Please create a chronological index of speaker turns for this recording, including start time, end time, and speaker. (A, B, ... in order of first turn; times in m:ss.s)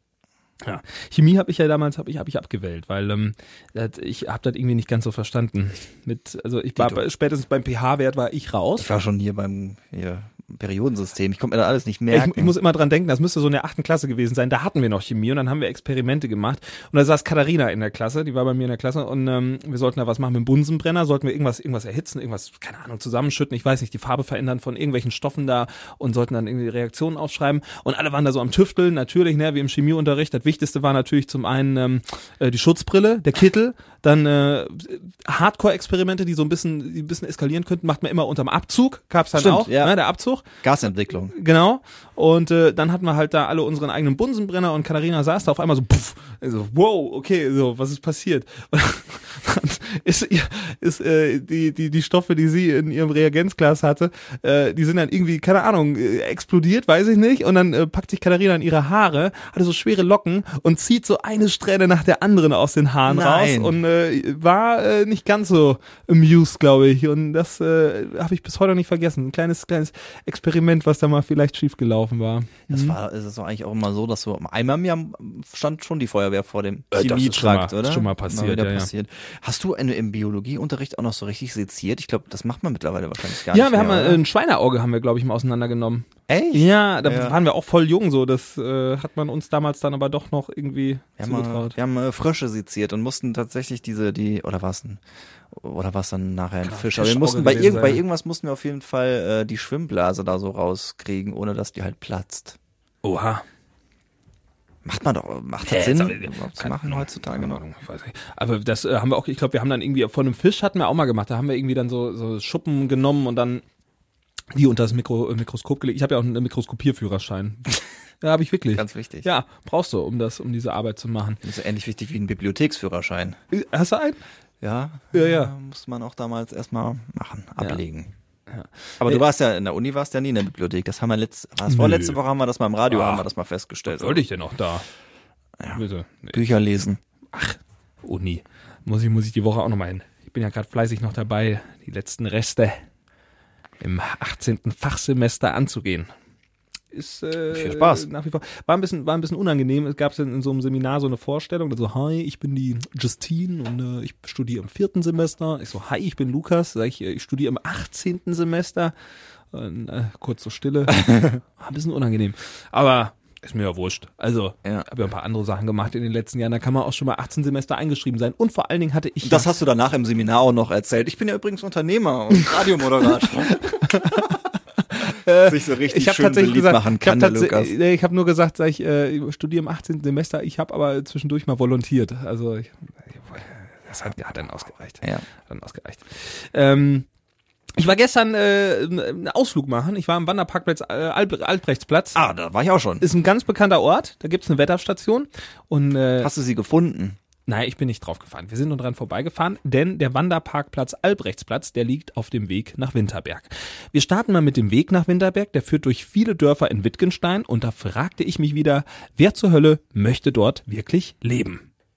0:00.6-0:08.9 A
0:06.8-0:07.0 B
0:08.8-0:12.5 B
0:12.1-0:40.4 A
0:39.3-0:39.9 B
0:40.6-0:41.3 B
0:41.3-1:13.0 A
1:03.1-1:03.8 B
1:12.7-1:24.2 B
1:16.9-1:18.9 A
1:23.5-1:31.7 A
1:26.3-1:27.4 B
1:31.2-1:35.0 B
1:35.5-1:42.6 B
1:36.6-1:38.0 A
1:43.0-1:43.4 A
1:44.8-1:47.6 B
1:45.6-1:53.6 A
1:54.5-2:01.4 A
1:58.7-1:59.3 B
2:01.4-2:03.4 B
2:03.5-2:04.2 A
2:04.6-2:08.1 B
2:05.1-2:05.5 A
2:08.5-2:09.2 A
2:09.0-2:14.2 B
2:11.7-2:12.2 A
2:12.9-2:13.2 A
2:13.9-2:14.8 A
2:15.6-2:17.0 B
2:15.7-2:16.4 A
2:17.3-2:22.8 A
2:23.8-2:26.1 A
2:26.9-2:38.9 A
2:27.5-2:28.1 B
2:39.5-2:49.5 A
2:41.0-2:41.3 B
2:49.2-2:54.4 B
2:53.8-2:54.3 A
2:54.9-3:07.1 A
2:55.3-2:57.7 B
3:07.8-3:12.2 A
3:12.1-3:13.0 B
3:13.0-3:16.3 A
3:16.2-3:17.2 B
3:17.5-3:31.6 A